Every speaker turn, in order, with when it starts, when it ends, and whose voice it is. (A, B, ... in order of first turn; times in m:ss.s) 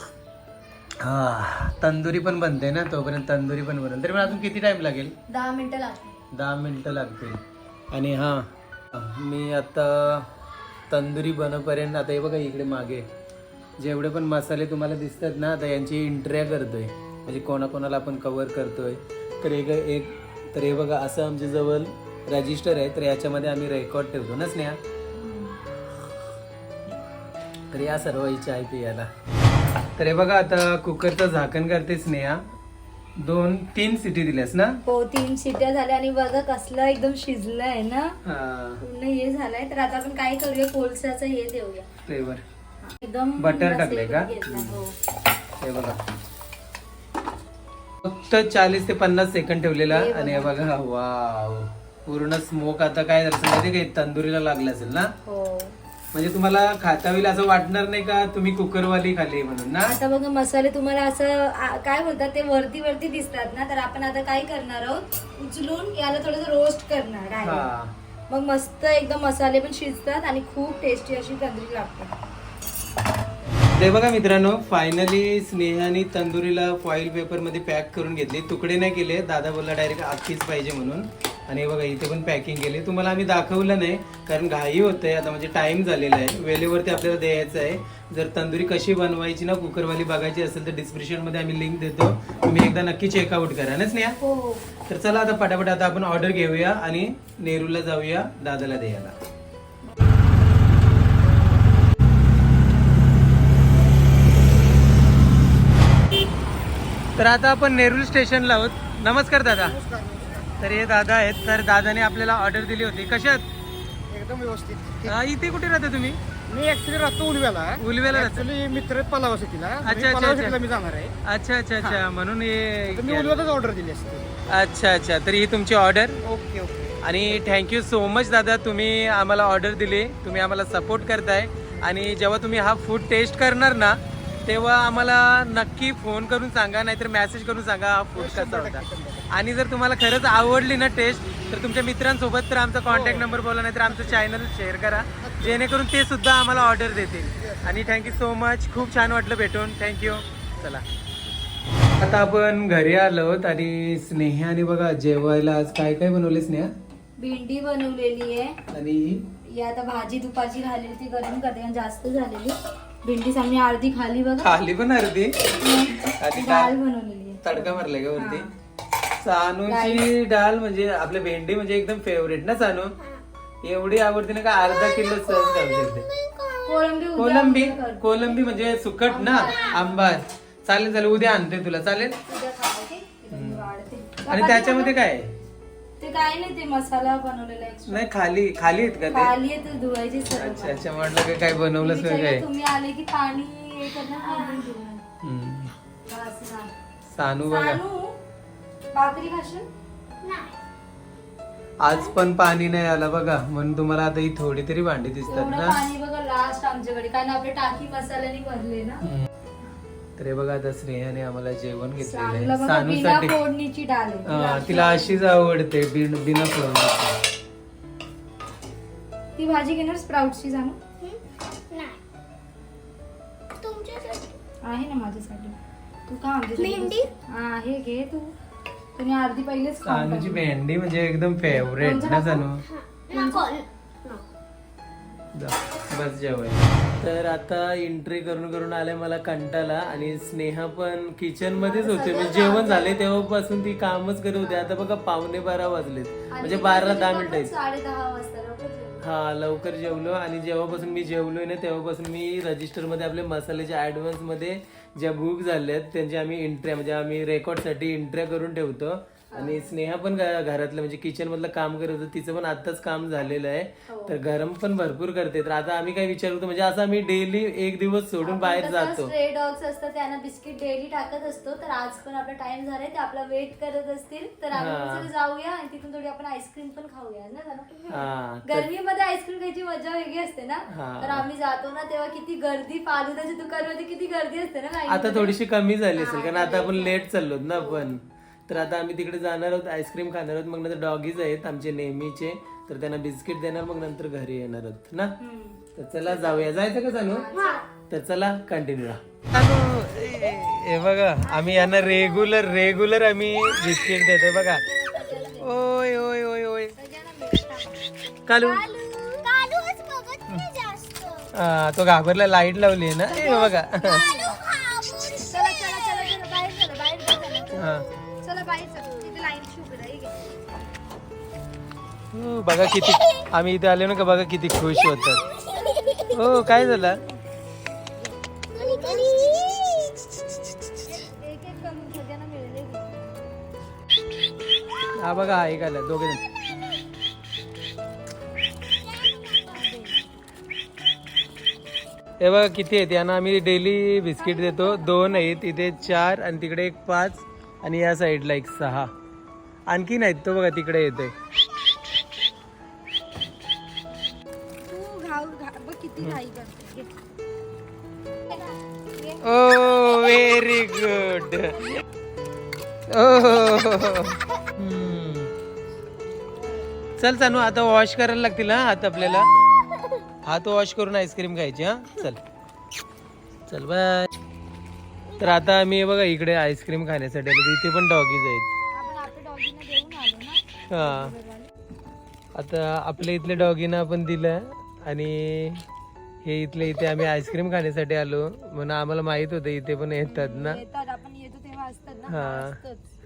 0:01.0-0:05.2 A
0:05.3-0:06.1 B
0:06.3-0:10.3 A
0:10.9-0:13.1 A
0:13.8-0:24.8 A
0:25.2-0:25.6 B
0:27.7-0:29.1 A
0:30.0-0:32.4 A
0:33.2-0:34.8 A
0:34.8-0:38.2 B
0:38.2-0:38.8 A
0:38.8-0:41.9 B
0:42.0-0:42.4 A
0:42.8-0:44.9 B
0:43.4-0:44.8 A
0:45.6-0:46.0 A
0:48.0-0:55.1 A
0:49.8-0:50.6 B
0:55.2-0:55.8 B
0:56.1-1:00.0 A
0:59.8-1:07.7 B
1:07.4-1:07.9 A
1:08.3-1:12.1 B
1:13.7-1:34.2 A
1:34.2-1:34.6 B
1:34.9-1:39.1 A
1:47.2-1:49.8 A
1:49.6-1:50.4 C
1:50.6-1:53.5 A
1:54.1-1:55.1 C
1:55.0-1:56.2 A
1:56.5-2:01.1 C
1:57.8-1:58.5 A
1:59.8-2:00.6 A
2:01.2-2:03.4 A
2:02.9-2:04.3 C
2:04.5-2:06.2 A
2:06.3-2:06.9 C
2:07.0-2:30.8 A
2:18.2-2:19.2 C
2:32.0-2:36.7 A
2:37.2-2:38.6 B
2:38.7-2:39.2 A
2:39.4-2:44.6 B
2:44.4-2:45.5 A
2:45.5-2:48.5 B
2:46.1-2:46.7 A
2:47.4-2:48.5 A
2:49.2-2:53.0 A
2:49.7-2:50.0 B
2:53.6-2:56.1 A
2:54.6-2:56.9 D
2:56.6-3:00.1 B
2:57.2-3:02.2 A
2:59.4-2:59.8 D
3:02.2-3:05.0 B
3:03.3-3:03.7 A
3:04.3-3:05.3 A
3:06.0-3:08.0 B
3:07.9-3:09.3 A
3:09.1-3:15.0 B
3:10.4-3:12.4 A
3:14.2-3:14.7 D
3:15.2-3:15.7 A
3:16.1-3:16.7 B
3:17.1-3:17.8 A
3:17.4-3:18.2 B
3:18.9-3:19.7 B
3:20.2-3:20.6 D
3:21.8-3:25.8 A
3:25.3-3:29.0 B
3:30.2-3:33.4 A
3:32.0-3:35.2 B
3:34.2-3:37.2 A
3:39.4-3:40.8 B
3:41.0-3:42.0 D
3:43.6-3:44.4 D
3:44.6-3:48.3 B
3:46.6-3:47.1 D
3:49.0-3:50.4 B
3:49.8-3:52.6 A
3:51.4-3:52.5 B
3:52.6-3:54.2 D
3:53.1-3:53.6 B
3:55.3-4:07.5 A
4:01.5-4:03.3 B
4:04.4-4:04.7 B
4:06.3-4:09.0 B
4:09.0-4:29.1 A
4:19.3-4:19.7 B
4:23.9-4:24.2 B
4:28.2-4:45.4 B
4:34.5-4:35.1 A
4:37.9-4:38.7 A
4:40.7-4:41.3 A
4:44.9-4:55.1 A
4:45.9-4:47.9 B
4:55.2-4:57.7 B
4:55.8-4:57.3 A
4:57.3-4:57.6 D
4:57.9-5:04.6 A
5:01.2-5:02.8 B
5:03.3-5:05.6 B
5:05.3-5:06.7 A
5:06.7-5:09.3 B
5:08.2-5:08.7 A
5:09.2-5:11.3 D
5:11.3-5:14.0 A
5:13.1-5:14.4 B
5:14.0-5:15.5 D
5:15.3-5:17.7 B
5:17.5-5:17.9 A
5:18.2-5:20.3 B
5:22.1-5:25.2 A
5:25.4-5:26.1 D
5:26.1-5:27.0 A
5:26.3-5:26.9 B
5:28.5-5:29.9 D
5:28.5-5:29.6 B
5:30.8-5:33.0 B
5:35.0-5:36.2 A
5:38.7-5:39.6 D
5:39.5-5:40.1 B
5:42.2-5:48.9 A
5:44.2-5:45.8 B
5:49.7-5:51.1 A
5:54.6-5:56.9 B
5:58.3-5:59.2 B
5:59.2-6:01.8 A
6:02.9-6:05.3 A
6:07.0-6:09.3 A
6:10.2-6:12.2 A
6:13.5-6:14.1 A
6:15.2-6:18.5 A
6:18.7-6:21.5 B
6:20.7-6:21.1 A
6:22.3-6:25.6 A
6:26.2-6:30.6 A
6:30.0-6:32.8 B
6:32.1-6:32.6 A